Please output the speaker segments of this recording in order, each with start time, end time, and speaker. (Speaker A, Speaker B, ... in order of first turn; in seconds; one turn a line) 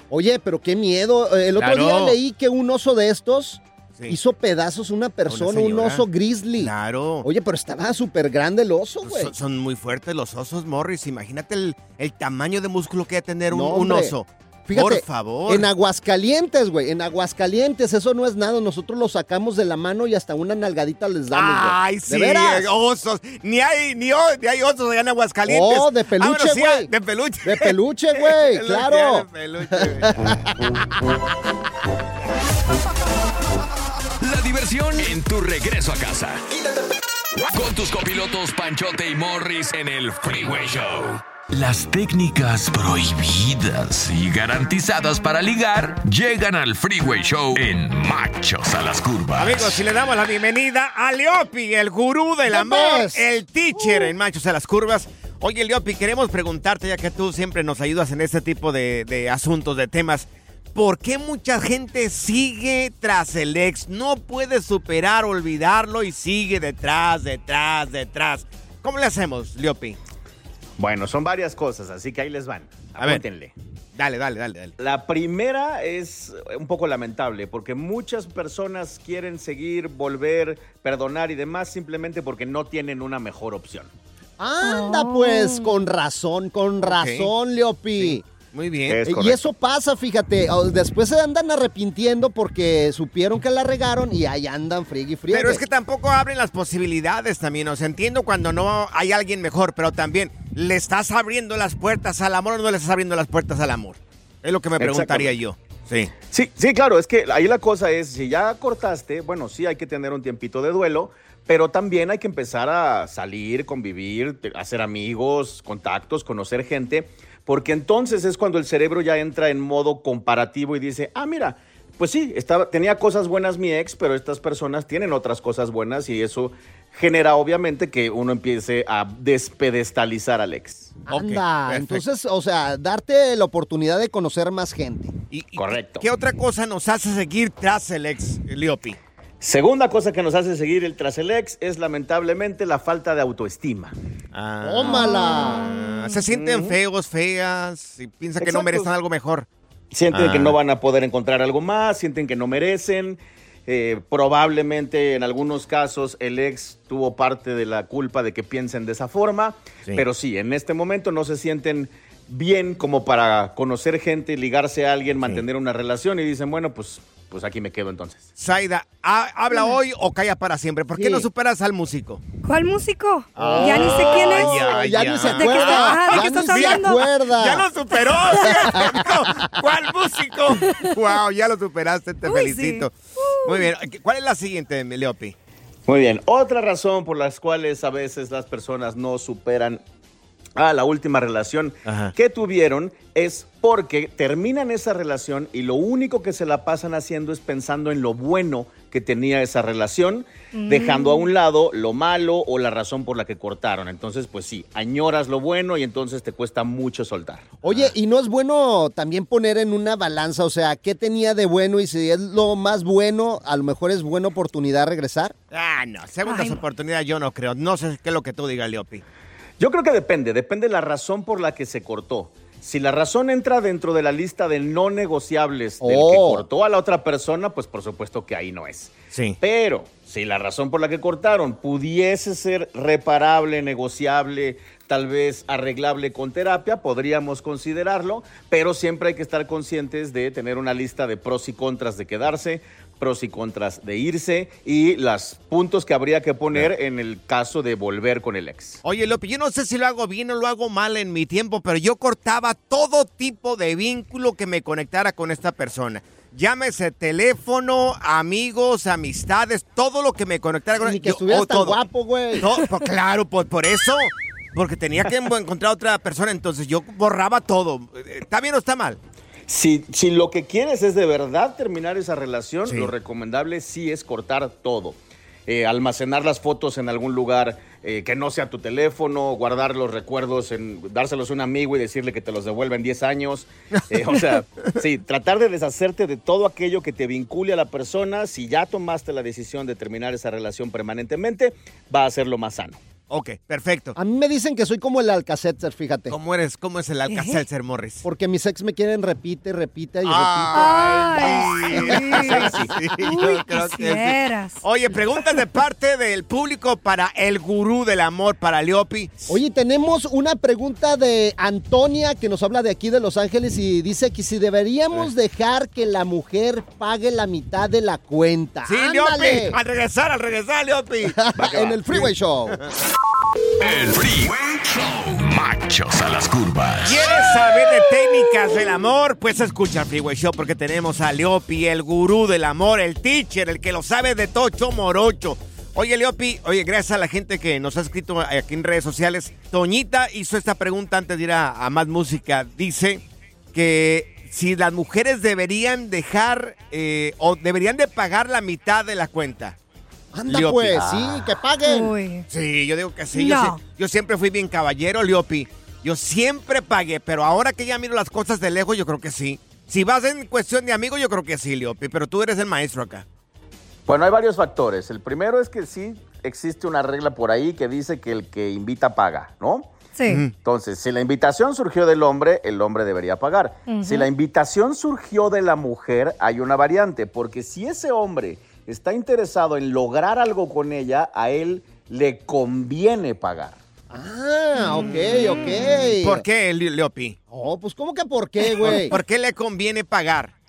Speaker A: 0.1-6.7
Speaker B: 1.6-2.2
Speaker B: 5.3-6.0
Speaker B: 6.6-7.2
Speaker A: 7.2-9.3
Speaker B: 9.0-15.7
Speaker A: 13.5-14.2
Speaker A: 14.7-22.7
Speaker B: 21.3-27.7
Speaker A: 25.5-26.9
Speaker A: 27.4-30.5
Speaker B: 28.5-30.1
Speaker C: 34.2-36.4
Speaker C: 37.5-49.8
Speaker B: 49.4-70.0
Speaker A: 52.5-53.2
Speaker A: 53.8-54.1
Speaker D: 70.8-73.5
Speaker B: 73.0-73.2
Speaker B: 74.0-74.8
Speaker D: 74.8-83.9
Speaker A: 84.4-88.2
Speaker E: 84.6-85.8
Speaker B: 86.8-87.3
Speaker B: 88.0-89.0
Speaker D: 88.9-89.4
Speaker A: 89.0-95.6
Speaker B: 95.3-106.1
Speaker D: 104.8-105.3
Speaker D: 106.3-131.0
Speaker B: 131.1-132.0
Speaker A: 131.1-135.1
Speaker B: 135.3-139.0
Speaker D: 135.6-136.1
Speaker D: 139.4-143.9
Speaker B: 144.3-149.5
Speaker A: 144.6-145.7
Speaker E: 145.0-145.9
Speaker D: 146.3-146.8
Speaker D: 148.4-148.9
Speaker D: 149.9-168.2
Speaker B: 150.1-150.6
Speaker B: 168.4-172.2
Speaker A: 170.9-171.3
Speaker E: 172.4-177.1
Speaker B: 173.3-185.3
Speaker A: 173.3-177.7
Speaker A: 178.3-179.3
Speaker E: 180.6-180.9
Speaker E: 182.2-183.7
Speaker D: 185.9-189.8
Speaker D: 190.6-207.6
Speaker B: 191.8-192.1
Speaker E: 200.5-201.3
Speaker A: 207.6-215.3
Speaker B: 215.5-219.0
Speaker E: 216.2-216.6
Speaker D: 219.6-248.8
Speaker A: 225.8-226.5
Speaker B: 229.1-229.4
Speaker B: 248.8-261.8
Speaker A: 260.8-262.5
Speaker B: 262.4-269.0
Speaker D: 269.5-292.8
Speaker B: 272.6-272.9
Speaker B: 293.1-294.0
Speaker A: 293.9-296.1
Speaker B: 296.1-298.0
Speaker E: 297.1-297.4
Speaker A: 298.0-302.9
Speaker B: 300.0-309.4
Speaker E: 300.5-304.6
Speaker A: 309.3-319.6
Speaker B: 318.6-321.2
Speaker A: 321.1-322.6
Speaker D: 321.4-322.1
Speaker C: 323.6-327.1
Speaker B: 326.8-349.6
Speaker A: 350.1-351.9
Speaker B: 350.3-350.9
Speaker D: 350.8-351.1
Speaker E: 351.6-352.3
Speaker B: 352.3-363.0
Speaker E: 353.1-353.6
Speaker D: 363.9-369.8
Speaker E: 369.9-370.2
Speaker B: 370.1-370.3
Speaker D: 370.4-383.6
Speaker E: 373.6-374.1
Speaker A: 383.9-386.2
Speaker B: 384.7-385.0
Speaker B: 386.0-387.2
Speaker A: 387.3-389.0
Speaker B: 388.5-390.3